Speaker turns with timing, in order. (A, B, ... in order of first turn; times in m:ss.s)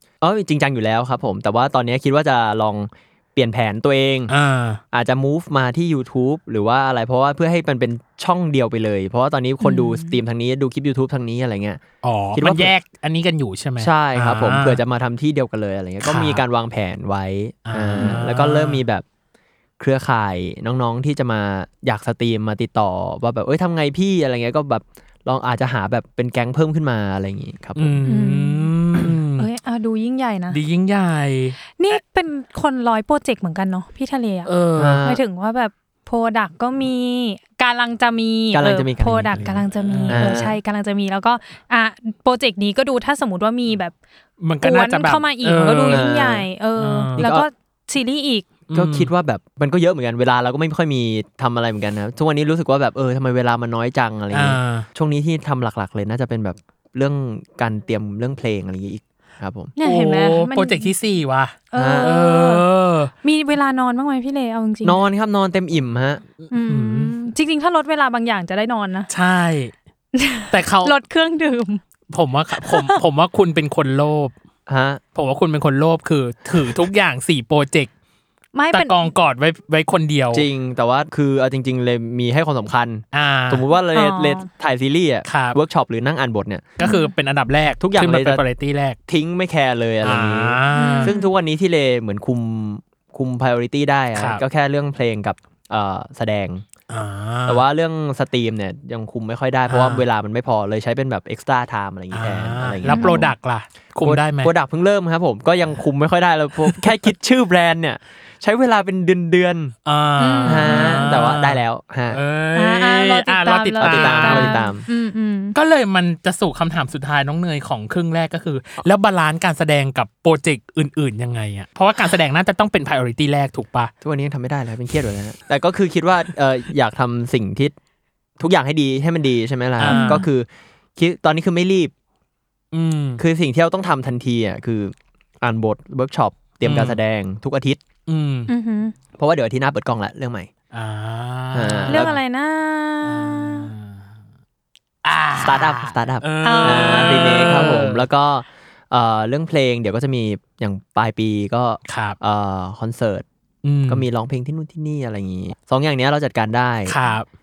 0:00.2-0:04.3 A
0:04.3-0:04.8 B
0:04.9-0:11.8 A
0:09.6-0:10.1 C
0:12.0-0:14.8 B
0:12.3-0:12.7 A
0:13.8-0:19.0 A
0:16.0-0:16.4 B
0:17.7-0:18.8 B
0:19.8-0:28.0 A
0:27.8-0:29.5 B
0:28.1-0:28.7 C
0:29.4-0:30.6 C
0:30.5-0:32.0 B
0:31.8-0:34.5 C
0:34.4-0:35.1 B
0:34.8-0:35.2 A
0:35.0-0:43.9 C
0:38.5-0:40.6 A
0:39.8-0:40.5 B
0:44.4-0:46.0 B
0:44.6-0:48.5 C
0:45.9-0:46.5 A
0:46.8-0:47.2 B
0:47.2-0:47.5 A
0:48.7-0:49.1 B
0:48.7-0:59.7 A
0:54.3-0:54.9 B
0:59.8-1:00.9 C
0:59.8-1:03.1 B
1:01.7-1:02.6 C
1:01.7-1:02.1 A
1:03.2-1:05.0 C
1:04.8-1:06.2 A
1:06.5-1:07.1 B
1:06.5-1:09.1 C
1:09.1-1:09.7 B
1:10.1-1:11.8 C
1:10.5-1:10.9 B
1:12.1-1:14.3 B
1:12.6-1:13.0 C
1:14.7-1:15.0 A
1:15.1-1:17.9 B
1:18.5-1:19.1 C
1:18.7-1:20.5 B
1:20.3-1:26.8 A
1:23.1-1:23.6 B
1:23.9-1:24.5 C
1:25.3-1:25.6 B
1:26.8-1:29.0 B
1:26.8-1:27.1 C
1:27.8-1:28.4 A
1:29.1-1:36.6 A
1:30.0-1:31.1 B
1:30.7-1:31.3 C
1:34.2-1:34.4 B
1:36.9-1:37.6 B
1:37.4-1:43.3 A
1:39.7-1:40.0 B
1:42.1-1:44.5 B
1:42.9-1:43.2 C
1:44.0-1:49.7 A
1:49.8-1:54.6 B
1:50.2-1:51.1 C
1:50.4-1:52.2 A
1:52.5-1:55.6 C
1:53.8-1:54.8 A
1:55.5-2:03.9 B
2:04.0-2:07.7 A
2:08.4-2:11.9 A
2:09.8-2:10.2 B
2:09.8-2:10.2 C
2:12.7-2:13.2 B
2:13.2-2:17.8 A
2:16.6-2:17.0 B
2:18.1-2:18.5 B
2:18.5-2:18.9 C
2:19.2-2:20.5 A
2:20.7-2:22.2 B
2:21.5-2:22.1 A
2:21.9-2:23.7 C
2:23.0-2:23.9 B
2:25.0-2:28.0 B
2:25.4-2:33.2 A
2:26.4-2:27.4 C
2:31.9-2:32.2 B
2:33.6-2:34.0 B
2:33.9-2:36.9 A
2:36.9-2:37.2 B